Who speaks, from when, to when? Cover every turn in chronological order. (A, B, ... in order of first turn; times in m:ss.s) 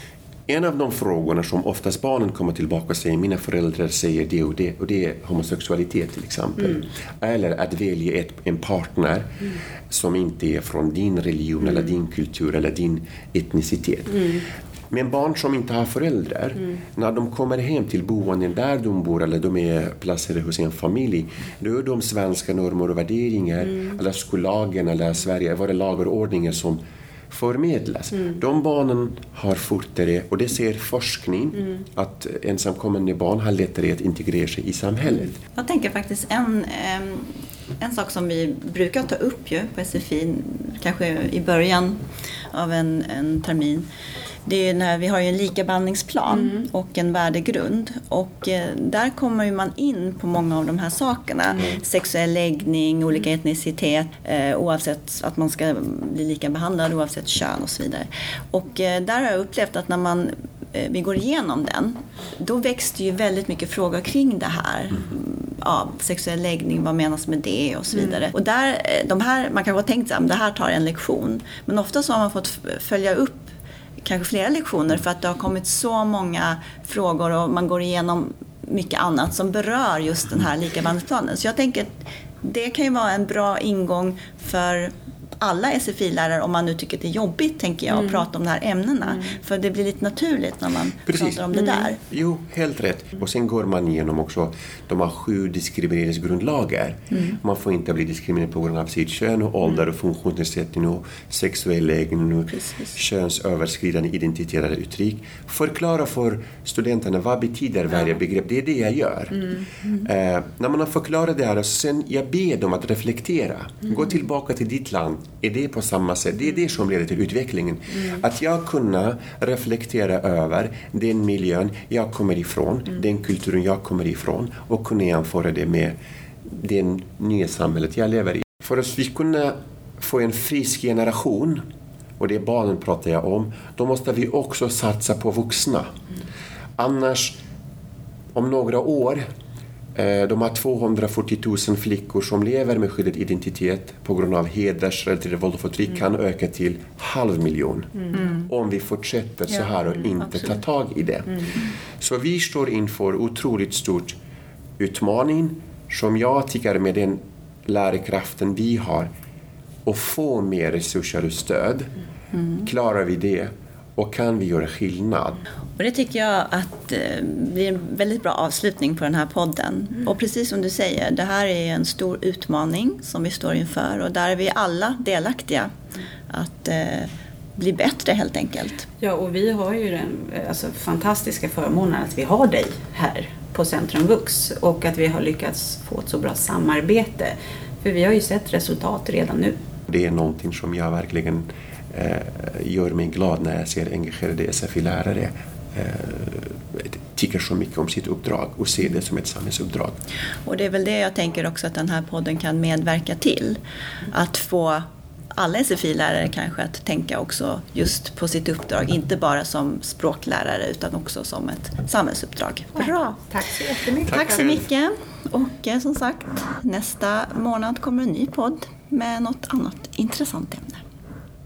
0:00.5-0:35.4 A
0:35.5-0:42.0 B
0:42.5-0:43.9 B
0:44.4-1:32.0 B
1:31.1-2:11.6 A
2:12.2-2:15.9 A
2:16.8-2:17.4 A
2:18.3-2:19.2 A
2:19.9-2:34.2 A
2:28.2-2:28.4 B
2:34.8-2:39.1 A
2:39.8-2:41.9 A
2:42.6-2:45.4 A
2:45.8-2:55.7 B
2:56.3-2:58.8 B
2:59.0-3:09.6 C
3:09.9-3:20.0 A
3:20.4-3:23.6 B
3:24.1-3:33.3 B
3:33.3-3:34.0 C
3:34.0-3:40.8 B
3:34.0-3:34.6 A